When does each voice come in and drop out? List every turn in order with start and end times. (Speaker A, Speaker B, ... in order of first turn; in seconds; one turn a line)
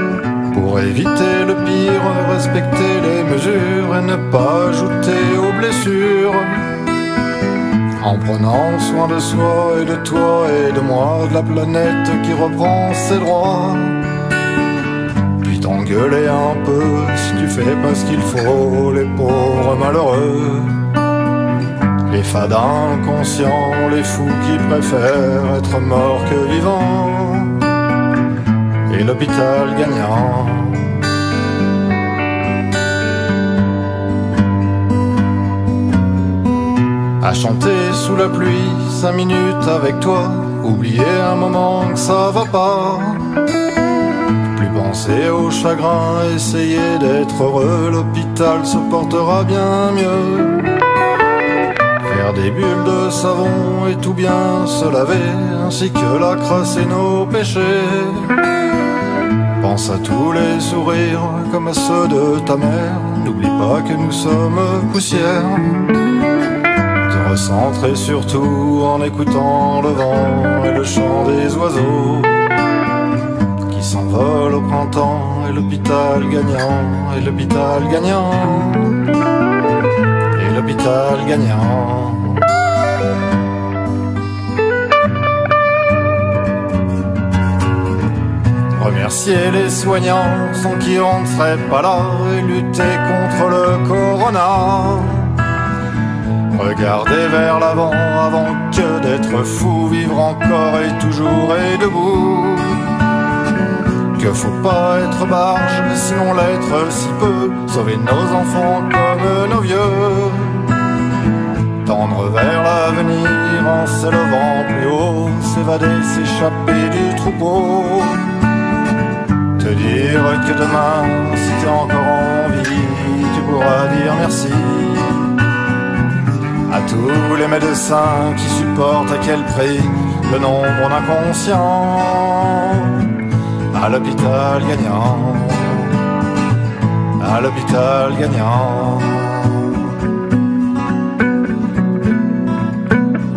Speaker A: 0.5-6.6
Speaker A: 8.0-14.0
Speaker A: 15.4-20.8
Speaker A: 22.1-27.6
Speaker A: 28.9-31.0
Speaker A: 37.2-43.3
Speaker A: 44.5-50.7
Speaker A: 52.0-58.4
Speaker A: 59.6-65.9
Speaker A: 67.0-72.5
Speaker A: 73.7-79.0
Speaker A: 80.3-82.4
Speaker A: 88.8-95.4
Speaker A: 96.5-102.9
Speaker A: 104.2-110.7
Speaker A: 111.8-118.2
Speaker A: 119.6-125.3
Speaker A: 126.7-133.0
Speaker A: 133.7-135.9
Speaker A: 137.2-139.8